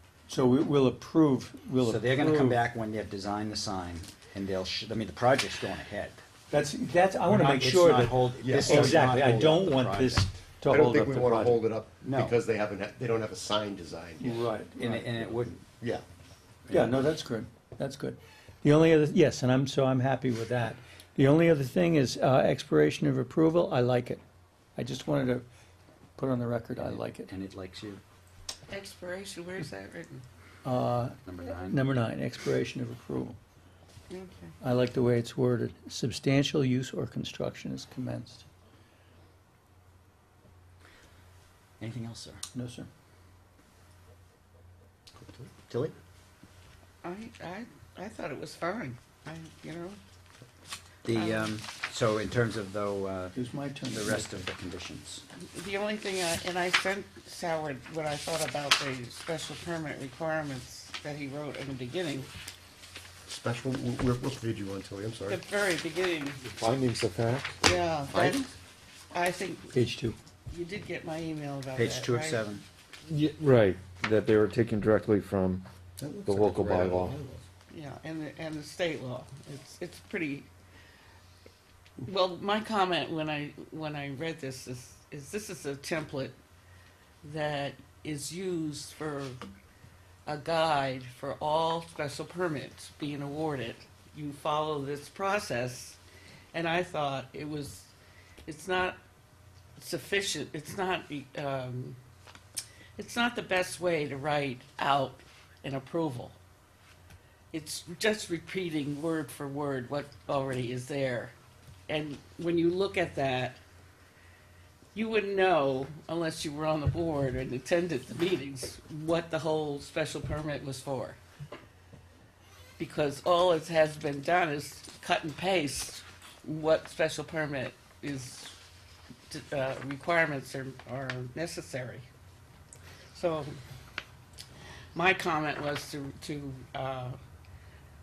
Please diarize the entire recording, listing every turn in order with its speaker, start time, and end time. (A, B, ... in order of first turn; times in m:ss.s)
0:00.3-0:02.6 A
0:01.8-0:06.2 B
0:06.5-0:11.6 A
0:07.3-0:10.3 B
0:08.4-0:09.1 C
0:10.7-0:14.5 C
0:12.0-0:12.4 B
0:14.2-0:15.3 A
0:14.8-0:15.6 B
0:15.8-0:16.0 C
0:16.6-0:17.1 B
0:16.7-0:24.2 A
0:24.8-0:25.4 A
0:26.2-0:27.3 A
0:26.8-0:28.0 B
0:28.7-0:30.2 D
0:30.6-0:33.4 A
0:31.2-0:31.8 B
0:34.1-0:34.5 D
0:34.6-0:38.4 A
0:41.8-0:42.4 B
0:42.5-0:42.9 A
0:45.2-0:45.6 C
0:45.7-0:45.9 B
0:47.0-0:50.0 D
0:51.0-0:53.4 B
0:51.1-0:51.6 D
0:53.3-0:54.5 A
0:53.9-0:55.2 B
0:55.5-1:02.3 D
1:03.3-1:05.4 C
1:05.3-1:06.4 D
1:06.4-1:07.6 E
1:07.6-1:08.5 D
1:08.1-1:08.4 B
1:08.2-1:08.5 C
1:09.1-1:09.7 D
1:09.7-1:10.2 A
1:10.5-1:12.4 D
1:11.7-1:12.6 B
1:13.1-1:15.6 E
1:16.0-1:17.4 C
1:16.2-1:17.2 E
1:17.7-1:20.5 D
1:22.0-1:26.4 D
1:27.2-1:29.4 D
1:30.2-1:36.0 D
1:36.5-1:37.9 D
1:38.5-1:39.0 D
1:39.8-1:42.0 D
1:43.0-1:46.4 D
1:47.5-1:51.3 D
1:51.9-1:53.6 D
1:54.9-2:01.2 D
2:02.8-2:08.5 D
2:09.3-2:12.0 D
2:13.1-2:13.5 D
2:14.9-2:17.2 D